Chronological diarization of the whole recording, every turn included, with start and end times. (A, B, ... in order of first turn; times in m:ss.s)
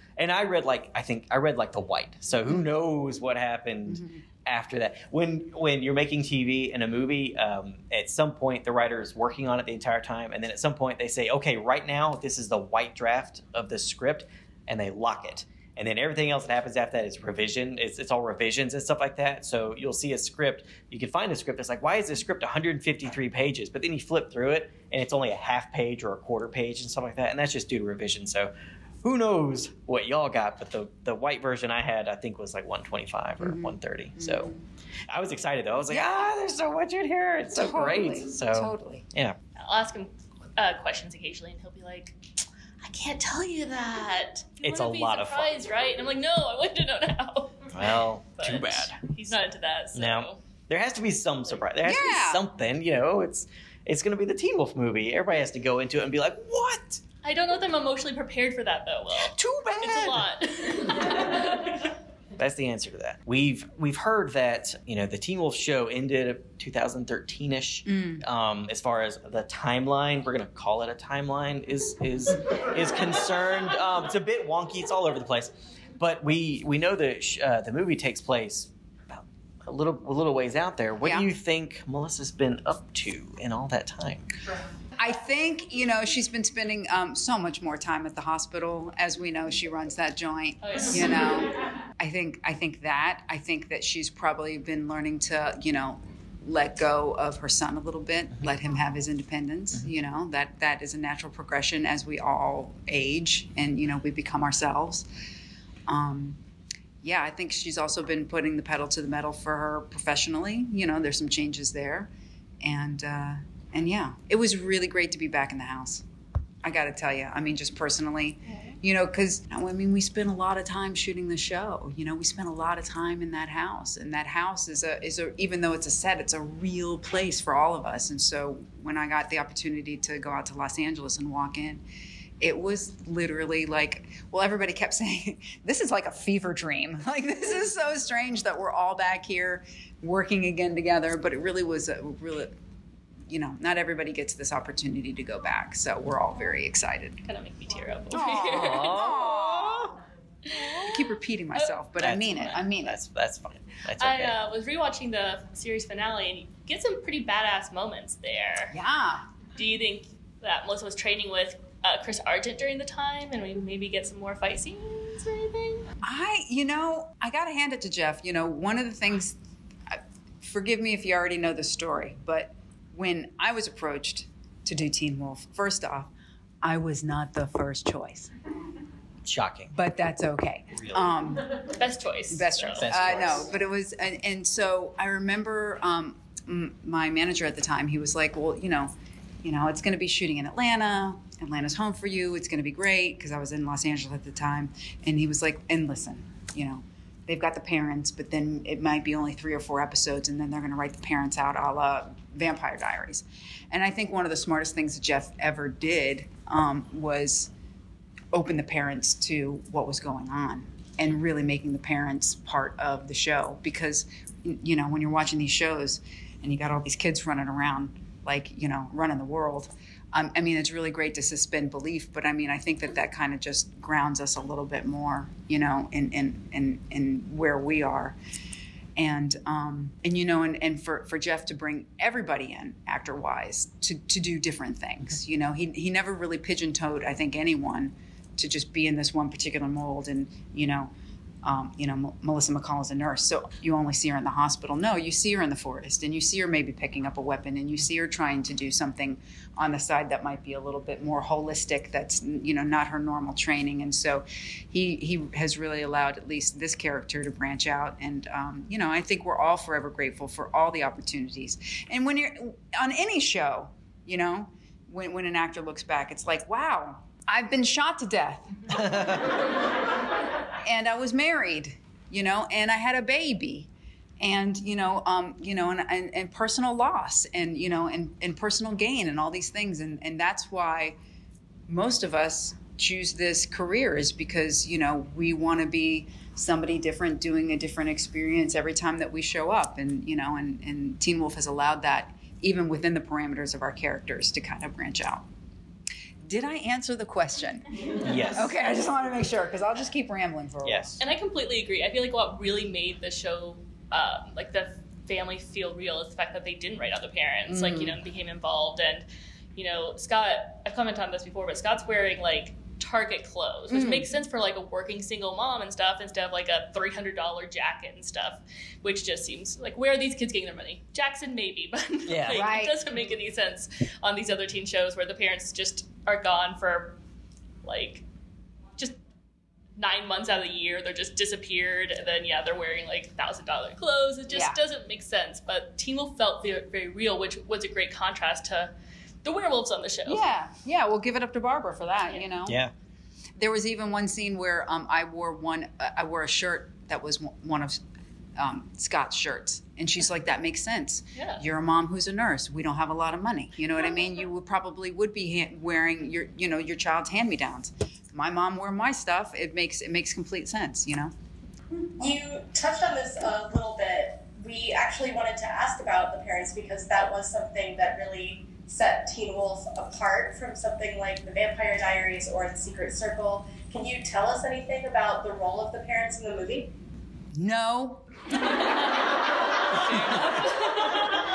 0:00.2-0:28.5 A
0:03.8-0:04.2 B
0:29.0-0:34.5 A
0:33.4-0:34.6 B
0:35.1-0:39.4 A
0:37.5-0:39.0 B
0:39.6-0:42.2 C
0:42.8-0:50.4 C
0:44.6-0:45.5 A
0:47.7-0:49.0 A
0:49.9-0:57.0 A
0:51.8-0:52.4 B
0:57.2-1:01.9 C
0:59.2-1:00.2 A
1:02.4-1:24.3 A
1:07.8-1:08.2 B
1:21.0-1:21.3 B
1:25.0-1:45.1 B
1:30.6-1:31.5 C
1:45.9-1:46.4 B
1:47.0-1:52.1 B
1:52.6-1:56.0 B
1:56.6-2:11.8 B
2:12.4-2:22.5 B
2:23.3-2:27.2 B
2:27.2-2:29.1 C
2:28.1-2:29.9 B
2:28.3-2:30.0 A
2:30.5-2:31.7 C
2:30.7-2:33.0 B
2:32.0-2:34.4 A
2:34.0-2:38.7 C
2:38.7-2:39.3 B
2:39.6-2:45.9 C
2:46.0-2:49.4 B
2:49.9-2:56.1 B
2:56.6-2:58.3 B
2:59.2-2:59.7 A
2:59.7-3:01.6 B
3:01.7-3:02.8 C
3:02.3-3:08.9 B
3:02.8-3:03.5 A
3:09.4-3:27.5 B
3:28.3-3:48.2 B
3:49.0-4:00.9 B
4:01.4-4:28.5 B
4:28.7-4:29.4 A
4:30.6-4:33.7 B
4:34.2-4:41.0 B
4:41.7-4:55.2 B
4:56.2-4:57.7 B
4:58.0-4:58.5 A
4:58.2-5:01.0 B
5:00.6-5:01.0 A
5:01.0-5:27.0 C
5:07.5-5:08.0 B
5:13.7-5:14.1 B
5:22.1-5:22.5 A
5:22.3-5:22.8 B
5:27.6-5:28.0 C
5:29.8-5:38.7 C
5:34.3-5:34.6 B
5:39.2-5:40.3 C
5:40.0-5:42.6 B
5:42.4-5:42.7 A
5:43.4-5:47.8 B
5:48.4-6:01.1 B
5:51.2-5:51.4 C
6:02.0-6:16.7 D
6:17.3-6:18.0 B
6:19.7-6:21.1 C